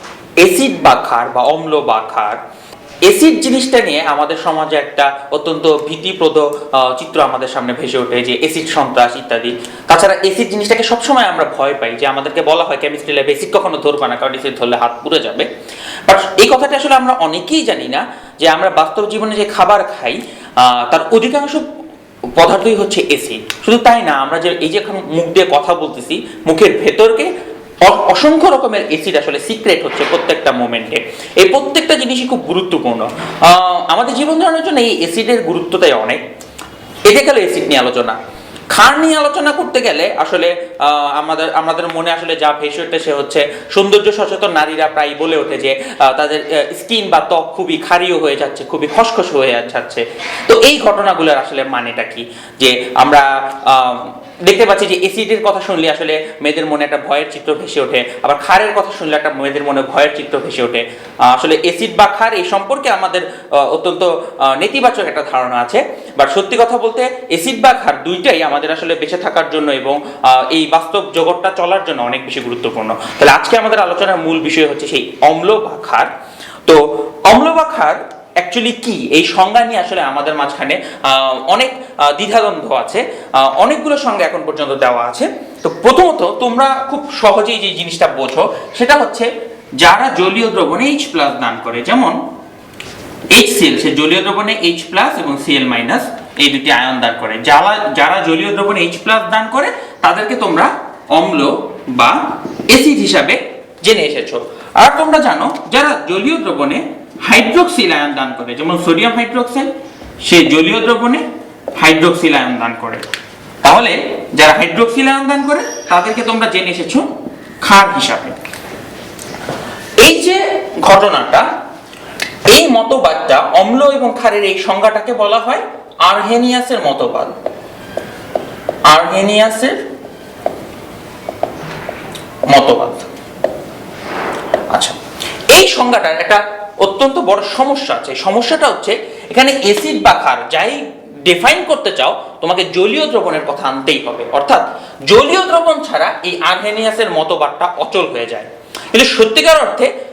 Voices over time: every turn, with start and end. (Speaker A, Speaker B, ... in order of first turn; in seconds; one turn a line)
Speaker A: 0.4-2.4
Speaker A: 3.0-15.5
Speaker A: 16.1-21.6
Speaker A: 22.4-27.3
Speaker A: 27.8-36.2
Speaker A: 37.0-38.2
Speaker A: 38.7-76.1
Speaker A: 76.6-92.2
Speaker A: 93.3-109.7
Speaker A: 110.2-111.2
Speaker A: 111.8-113.0
Speaker A: 113.6-117.0
Speaker A: 117.6-118.3
Speaker A: 120.0-121.5
Speaker A: 122.5-127.3
Speaker A: 128.9-129.8
Speaker A: 132.5-133.1
Speaker A: 134.7-135.0
Speaker A: 135.5-149.9